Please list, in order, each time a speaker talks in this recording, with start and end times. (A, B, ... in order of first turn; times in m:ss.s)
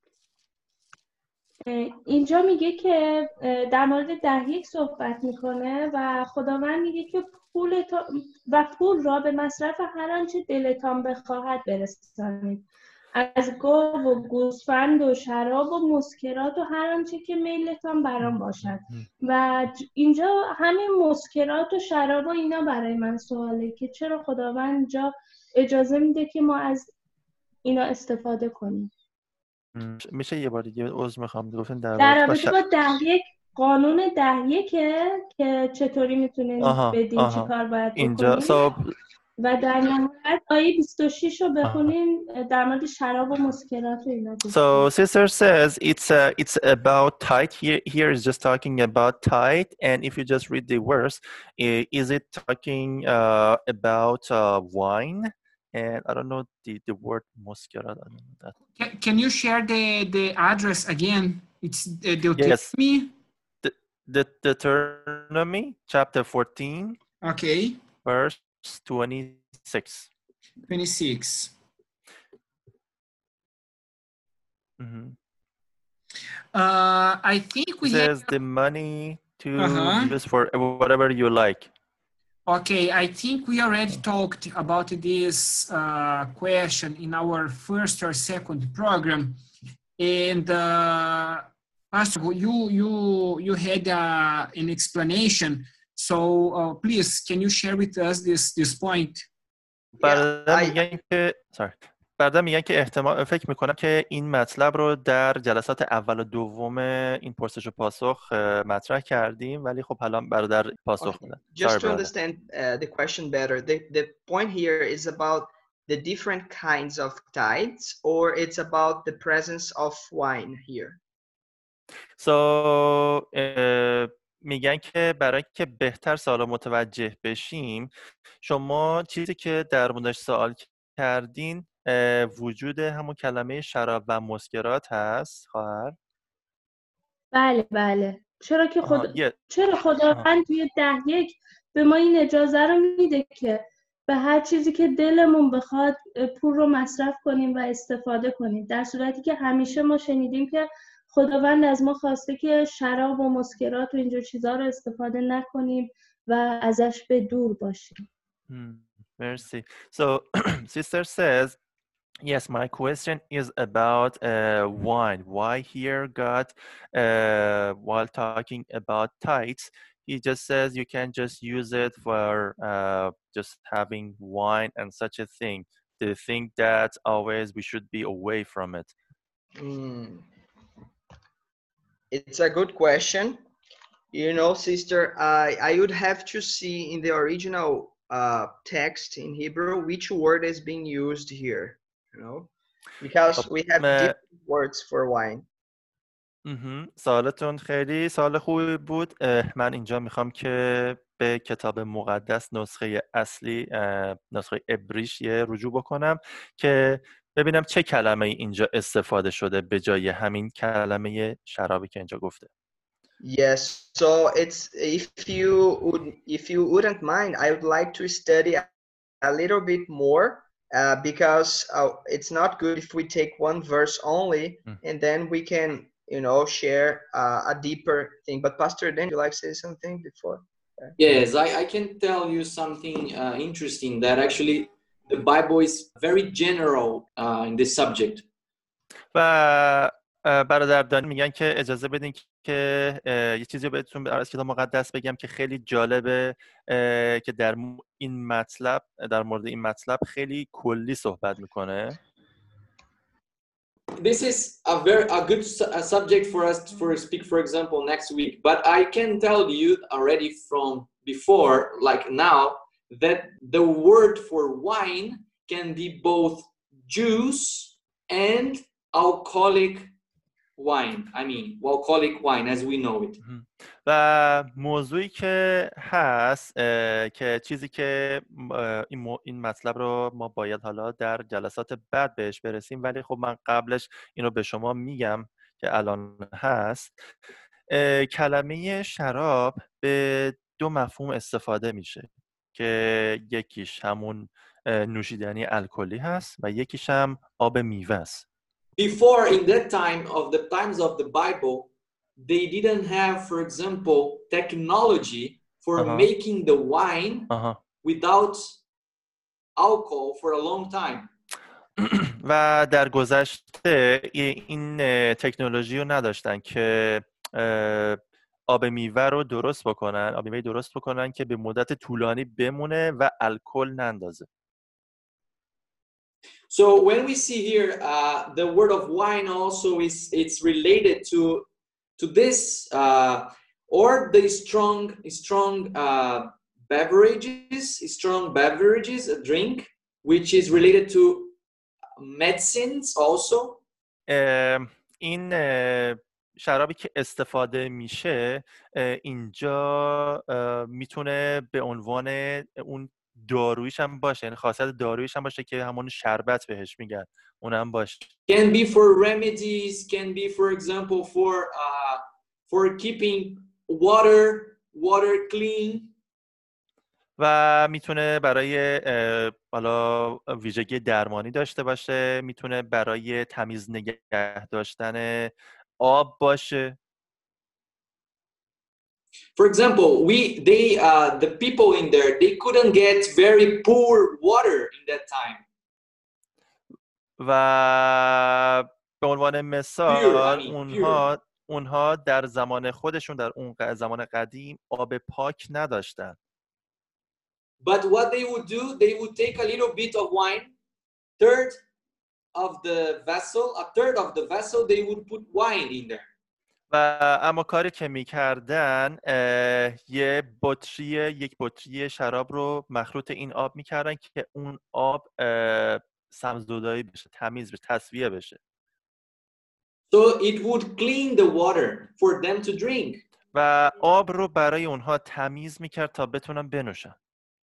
0:01.7-0:26.9 A
0:18.2-0:19.1 B
0:27.6-0:28.9 A
0:29.7-0:32.6 B
0:32.0-0:38.6 A
0:36.6-0:38.9 B
0:39.4-0:44.9 A
0:44.5-0:58.5 B
0:58.8-1:03.1 C
1:02.4-1:02.7 B
1:03.6-1:07.0 B
1:07.2-1:07.8 C
1:08.0-1:10.1 B
1:10.7-1:11.5 C
1:14.8-1:15.2 B
1:16.5-1:18.2 C
1:17.8-1:21.7 B
1:19.6-1:20.1 C
1:22.5-1:29.4 C
1:30.0-1:39.3 C
1:40.0-1:40.9 D
1:40.0-1:52.1 B
1:51.0-2:01.0 D
2:02.2-2:07.9 B
2:08.4-2:16.0 B
2:17.3-2:38.0 A
2:18.8-2:19.4 B
2:38.5-2:41.6 B
2:42.2-2:58.9 B
2:59.6-3:00.3 D
3:02.1-3:03.4 D
3:04.1-3:12.5 D
3:13.0-3:15.5 D
3:13.4-3:14.1 B
3:16.4-3:32.5 B
3:33.2-3:38.7 D
3:39.2-3:50.9 D
3:51.0-3:58.2 E
3:59.1-4:12.0 B
4:14.0-4:29.9 E
4:30.6-4:33.2 E
4:33.2-4:47.0 B
4:47.7-4:58.2 B
4:58.8-5:07.3 E
5:05.8-5:06.1 B
5:07.3-5:07.6 B
5:07.8-5:08.5 E
5:09.6-5:11.1 E
5:11.8-5:24.3 B
5:26.5-5:31.5 E
5:32.0-5:41.4 E
5:42.0-5:43.6 E
5:44.1-5:58.1 B
5:58.3-6:05.9 E
6:07.2-6:16.8 B
6:19.4-6:25.4 E
6:27.2-6:36.2 B
6:29.9-6:31.1 E
6:37.6-6:40.5 E
6:41.2-6:41.6 E
6:42.3-6:46.1 E
6:46.7-6:58.4 B
6:59.9-7:03.0 E
7:03.3-7:07.0 B